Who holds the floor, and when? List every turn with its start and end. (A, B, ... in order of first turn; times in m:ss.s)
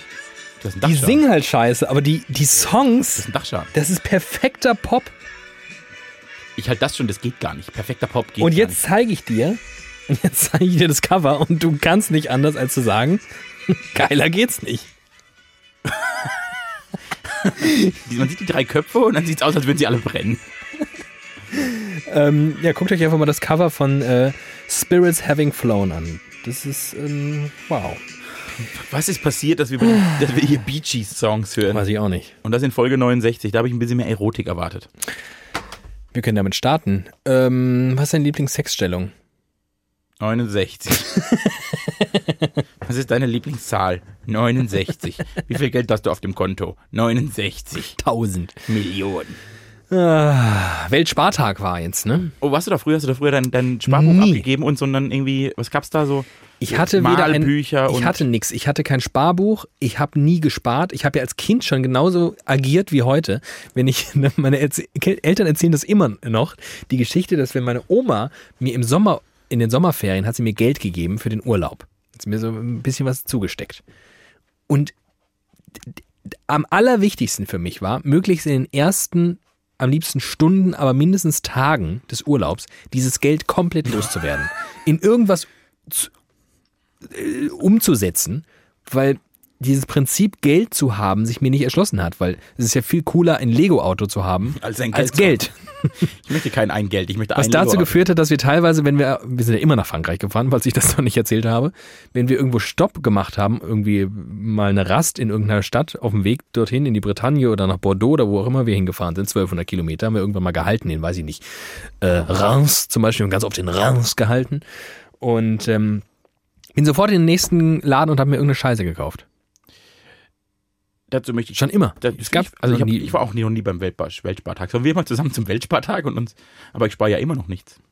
0:00.6-0:01.2 A
0:00.8-0:05.1 B
0:03.2-0:03.7 A
0:06.6-0:08.8 A
0:08.4-0:14.9 B
0:15.9-0:16.2 A
0:17.4-0:20.4 A
0:21.5-0:28.0 B
0:28.6-0:31.8 A
0:31.7-0:32.3 B
0:32.4-0:34.9 A
0:36.1-0:39.1 B
0:40.2-0:41.1 A
0:41.0-0:42.5 B
0:42.8-0:48.0 A
0:47.9-0:48.7 B
0:48.7-0:49.4 A
0:49.9-0:52.4 B
0:52.4-0:58.2 A
0:53.9-0:54.5 B
0:56.6-1:13.8 B
1:14.7-1:14.9 B
1:15.8-1:26.1 B
1:27.0-1:35.9 B
1:34.5-1:35.4 A
1:36.0-1:37.9 A
1:37.4-1:54.6 B
1:55.2-1:56.0 B
1:56.8-1:59.2 B
2:01.1-2:07.8 A
2:01.5-2:03.2 B